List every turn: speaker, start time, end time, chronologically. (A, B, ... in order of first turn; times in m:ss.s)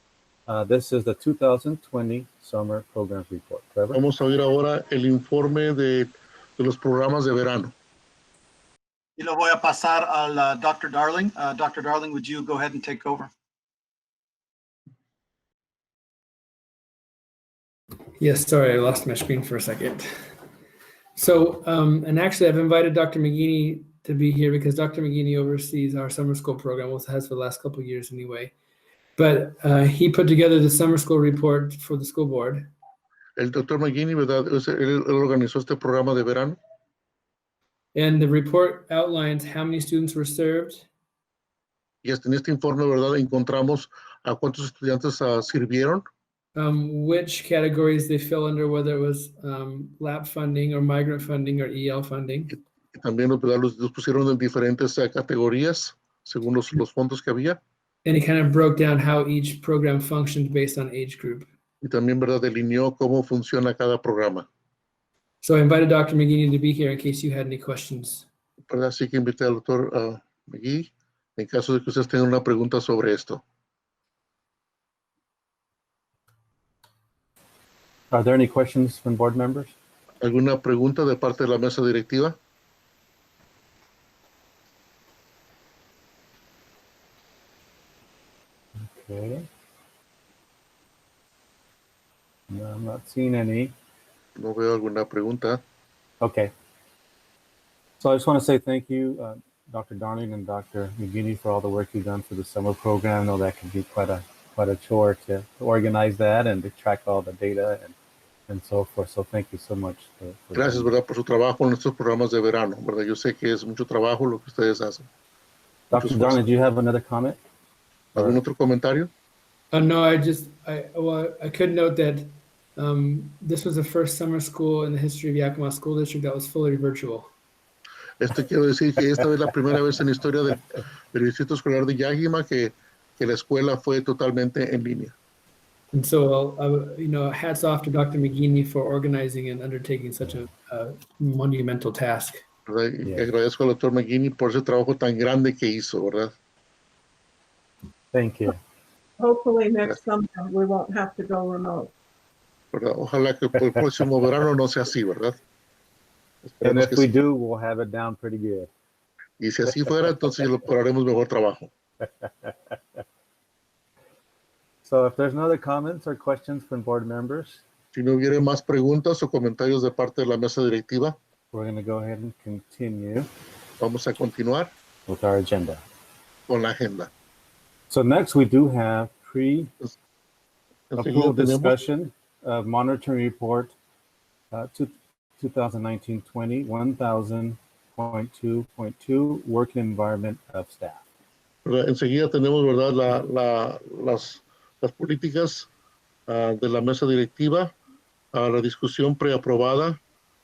0:00.5-0:04.0 A
0:03.9-0:07.7 B
0:09.2-0:13.3 C
0:18.2-0:20.1 D
0:21.2-0:28.5 D
0:29.2-0:32.7 D
0:33.4-0:36.6 B
0:37.9-0:40.8 D
0:42.0-0:46.0 B
0:46.5-0:52.6 D
0:52.9-0:57.6 B
0:58.0-1:01.5 D
1:01.8-1:04.5 B
1:05.4-1:08.2 D
1:08.7-1:13.4 B
1:18.1-1:19.7 A
1:20.2-1:22.4 B
1:28.8-1:29.5 A
1:32.5-1:33.7 A
1:34.4-1:35.6 B
1:36.2-1:36.5 A
1:38.0-1:47.9 A
1:48.5-1:50.9 A
1:50.5-1:55.1 B
1:55.9-1:57.4 A
1:55.9-1:56.4 B
1:58.1-1:59.1 B
1:59.7-2:07.3 D
2:08.2-2:15.1 B
2:15.9-2:22.4 D
2:22.7-2:26.3 B
2:28.1-2:28.6 A
2:29.2-2:31.9 E
2:32.7-2:35.4 B
2:36.4-2:37.1 B
2:36.6-2:38.7 A
2:39.4-2:41.7 B
2:42.2-2:42.7 A
2:44.8-2:47.6 A
2:47.9-2:51.2 B
2:51.5-2:53.3 A
2:53.8-2:54.7 B
2:55.1-2:55.8 A
2:56.5-2:57.1 B
2:57.9-2:59.7 A
3:00.9-3:01.8 B
3:01.0-3:03.7 A
3:04.5-3:11.0 A
3:11.6-3:15.7 B
3:16.3-3:17.7 B
3:18.3-3:20.0 B